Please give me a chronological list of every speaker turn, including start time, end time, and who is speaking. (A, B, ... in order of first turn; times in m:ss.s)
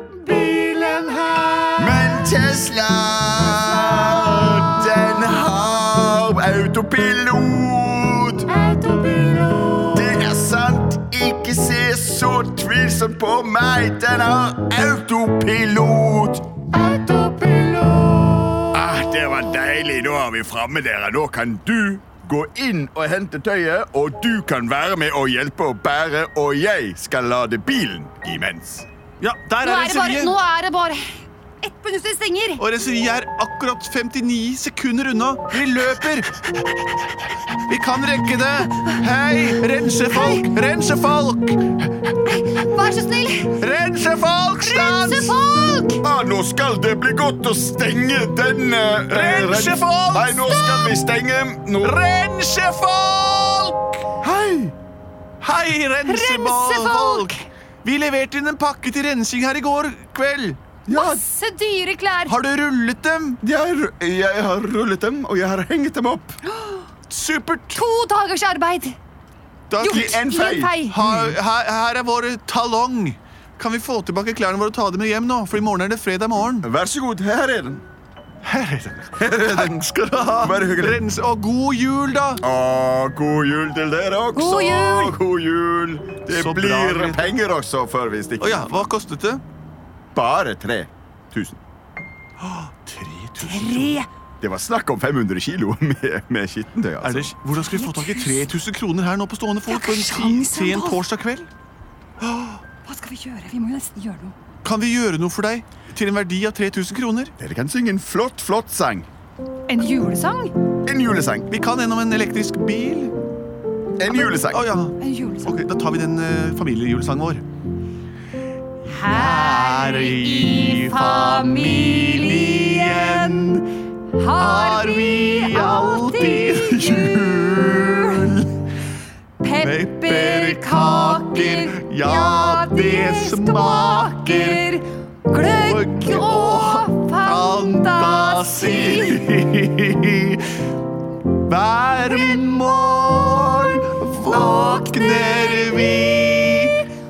0:00.2-0:02.2 A
0:00.4-0:01.2 B
0:01.8-0:08.5 C
0:03.8-0:04.7 A
0:08.5-0:10.3 A
0:09.9-0:16.6 C
0:16.7-0:18.9 A
0:18.7-0:28.9 C
0:29.2-0:30.4 A
0:29.6-0:32.6 B
0:32.6-0:41.9 A
0:40.1-0:40.4 B
0:42.3-0:43.6 B
0:43.5-0:45.4 A
0:44.6-0:46.0 B
0:46.0-0:52.0 C
0:49.1-0:50.9 A
0:50.5-0:50.9 B
0:51.8-0:54.1 A
0:54.2-0:54.7 C
0:55.4-1:01.2 A
0:56.1-0:57.5 B
1:00.9-1:02.4 B
1:02.3-1:03.4 A
1:03.4-1:06.4 C
1:06.5-1:06.8 B
1:07.1-1:07.8 A
1:07.7-1:09.0 B
1:09.7-1:10.2 A
1:09.8-1:11.0 B
1:09.8-1:11.3 C
1:10.9-1:16.7 A
1:16.6-1:17.8 C
1:18.4-1:22.4 A
1:19.2-1:19.8 C
1:20.4-1:21.0 C
1:22.4-1:28.8 C
1:24.4-1:25.2 B
1:26.3-1:27.4 A
1:28.4-1:29.4 A
1:30.1-1:31.6 C
1:32.4-1:34.0 A
1:33.4-1:34.1 B
1:34.4-1:37.3 C
1:37.0-1:41.5 A
1:37.7-1:38.4 B
1:39.7-1:41.0 B
1:42.2-1:42.6 A
1:42.8-1:44.4 B
1:44.6-1:47.3 A
1:47.4-1:49.1 C
1:49.7-1:50.5 B
1:50.9-1:51.5 C
1:51.5-1:53.2 A
1:54.0-1:54.6 C
1:54.1-1:57.4 A
1:55.0-1:55.6 B
1:58.9-2:03.5 B
1:58.9-2:03.7 A
2:04.2-2:08.3 B
2:04.4-2:08.6 A
2:09.4-2:19.2 B
2:09.6-2:14.6 A
2:15.3-2:20.6 A
2:21.4-2:26.8 A
2:22.1-2:22.4 B
2:24.3-2:26.8 B